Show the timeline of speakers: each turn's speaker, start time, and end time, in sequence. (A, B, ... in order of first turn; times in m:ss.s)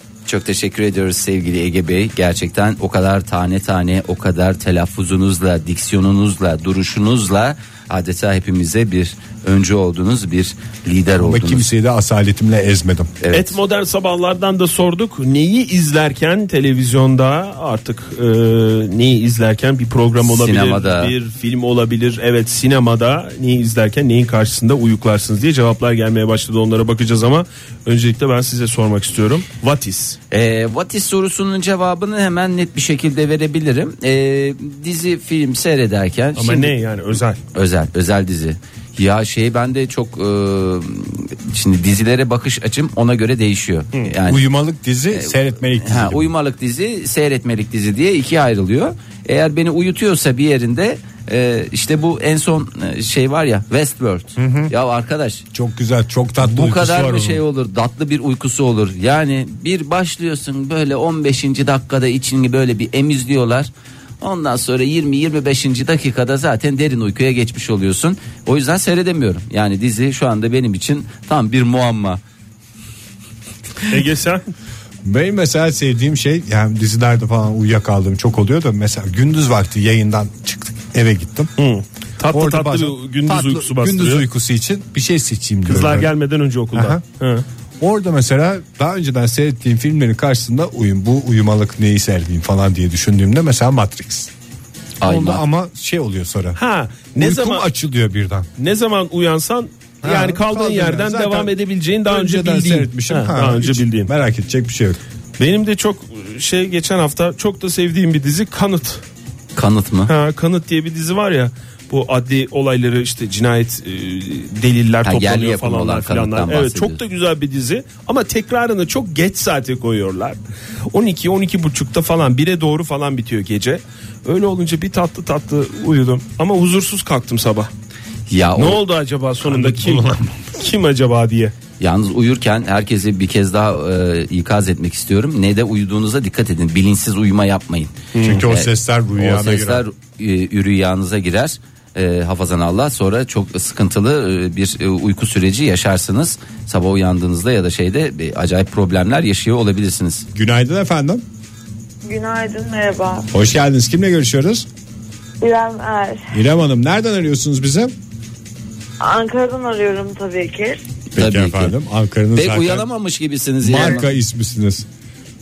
0:00.3-0:11.7 A
0:11.2-0:13.1 B
0:13.2-0:13.6 A
0:13.3-0:30.2 C
0:20.2-0:21.1 A
0:30.3-0:36.7 A
0:36.4-0:37.4 C
0:37.5-0:44.4 A
0:44.2-0:46.3 B
0:45.1-0:55.4 A
0:54.4-0:54.7 B
0:55.5-0:57.4 B
0:56.4-1:03.7 A
1:04.2-1:12.2 A
1:13.9-1:14.5 C
1:15.0-1:21.5 B
1:21.6-1:24.3 C
1:22.3-1:26.1 B
1:25.7-1:27.4 C
1:26.7-1:27.0 B
1:27.8-1:34.3 B
1:35.0-1:35.4 A
1:35.0-1:36.6 B
1:36.6-1:37.7 C
1:37.2-1:38.5 B
1:38.6-1:44.1 C
1:40.0-1:41.5 B
1:42.1-1:45.0 B
1:45.4-1:49.0 C
1:49.6-1:50.1 A
1:50.1-2:00.4 C
1:55.0-1:57.0 A
2:00.9-2:07.7 C
2:08.3-2:08.8 A
2:08.6-2:11.5 C
2:09.4-2:10.4 B
2:11.8-2:30.3 A
2:18.1-2:18.5 C
2:18.2-2:19.8 B
2:30.3-2:31.2 B
2:32.0-2:33.3 D
2:33.3-2:34.7 B
2:35.4-2:36.3 D
2:36.3-2:37.9 B
2:39.0-2:40.8 D
2:41.2-2:41.7 A
2:41.2-2:42.9 B
2:42.3-2:44.1 A
2:43.6-2:44.9 B